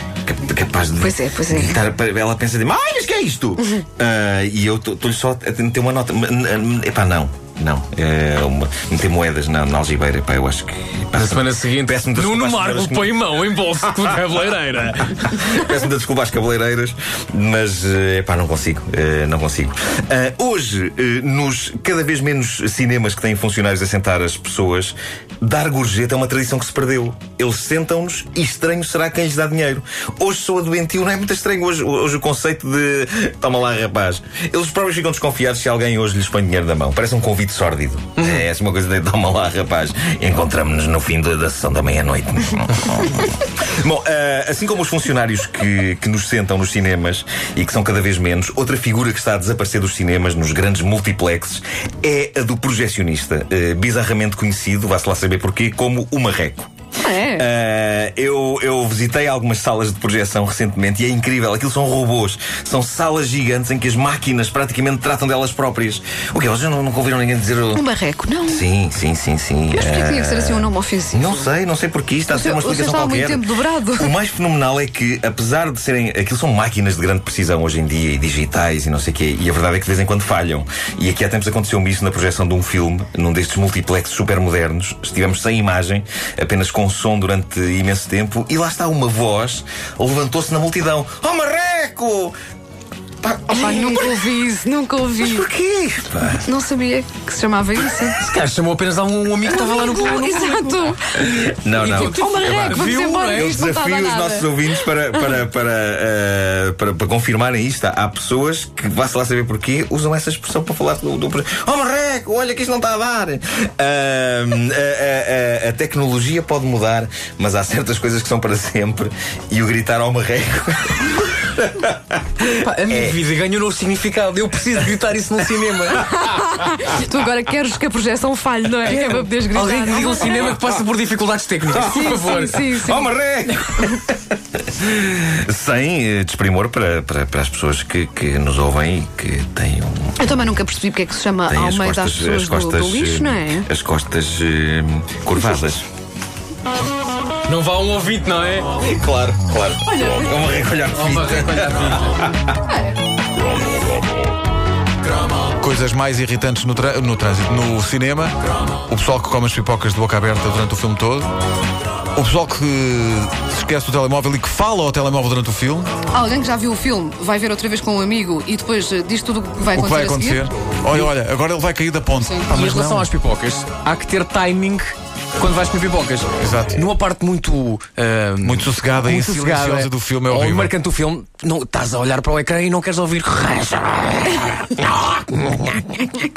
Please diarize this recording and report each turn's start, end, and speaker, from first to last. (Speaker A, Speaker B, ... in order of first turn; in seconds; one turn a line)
Speaker A: 0.2-13.4
Speaker B: 1.0-1.8
Speaker C: 11.2-15.3
Speaker A: 15.3-56.7
Speaker C: 38.2-38.4
Speaker B: 57.0-57.5
Speaker A: 57.4-67.8
Speaker B: 67.7-68.7
Speaker A: 68.5-92.4
Speaker B: 69.7-71.5
Speaker B: 72.3-74.1
Speaker A: 93.2-94.4
Speaker B: 93.5-95.5
Speaker A: 95.2-96.5
Speaker B: 96.4-98.2
Speaker C: 98.2-100.9
Speaker B: 99.5-101.1
Speaker A: 101.3-122.2
Speaker B: 101.8-104.6
Speaker C: 101.8-103.6
Speaker C: 122.4-126.2
Speaker A: 122.9-123.2
Speaker B: 125.9-130.5
Speaker C: 128.8-132.7
Speaker A: 130.3-130.7
Speaker B: 131.7-133.1
Speaker A: 131.7-140.5
Speaker B: 140.2-143.7
Speaker A: 141.5-145.9
Speaker C: 147.5-148.7
Speaker A: 148.8-152.6
Speaker B: 149.9-150.3
Speaker C: 150.9-152.2
Speaker B: 152.6-153.0
Speaker D: 155.6-158.4
Speaker D: 158.9-161.3
Speaker D: 162.2-165.9
Speaker B: 166.1-170.5
Speaker D: 169.7-173.1
Speaker B: 172.2-172.5
Speaker C: 172.5-186.2
Speaker D: 176.4-176.8
Speaker D: 178.4-180.7